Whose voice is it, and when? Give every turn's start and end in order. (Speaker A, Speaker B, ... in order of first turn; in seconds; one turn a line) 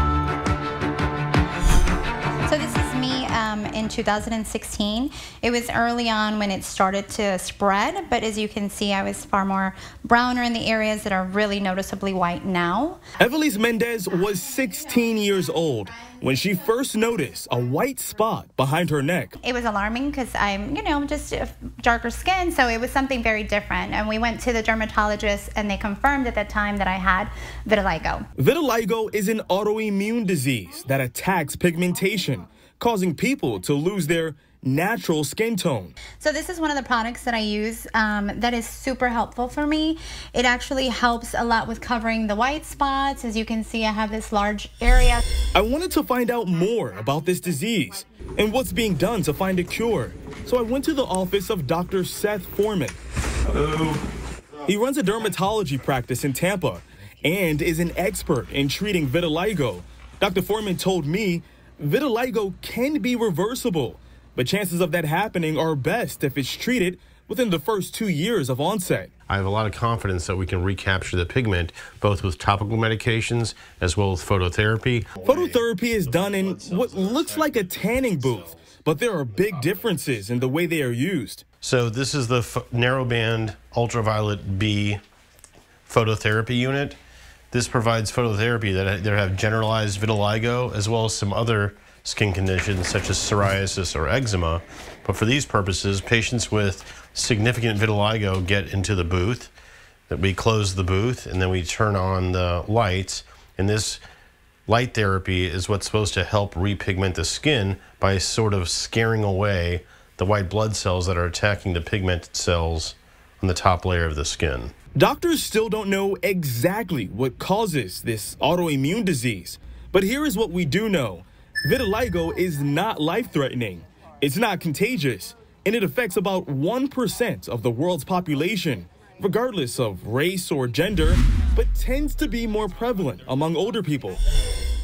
Speaker A: 2.5-13.0
Speaker B: 13.2-19.4
Speaker A: 14.3-16.8
Speaker A: 19.4-28.2
Speaker B: 28.4-36.0
Speaker A: 36.2-45.2
Speaker B: 45.5-54.0
Speaker B: 54.6-69.1
Speaker C: 69.3-78.5
Speaker B: 75.2-81.4
Speaker C: 79.5-80.0
Speaker C: 81.6-85.0
Speaker C: 85.9-87.0
Speaker C: 87.5-99.5
Speaker C: 100.1-104.0
Speaker C: 104.7-114.7
Speaker B: 115.0-134.2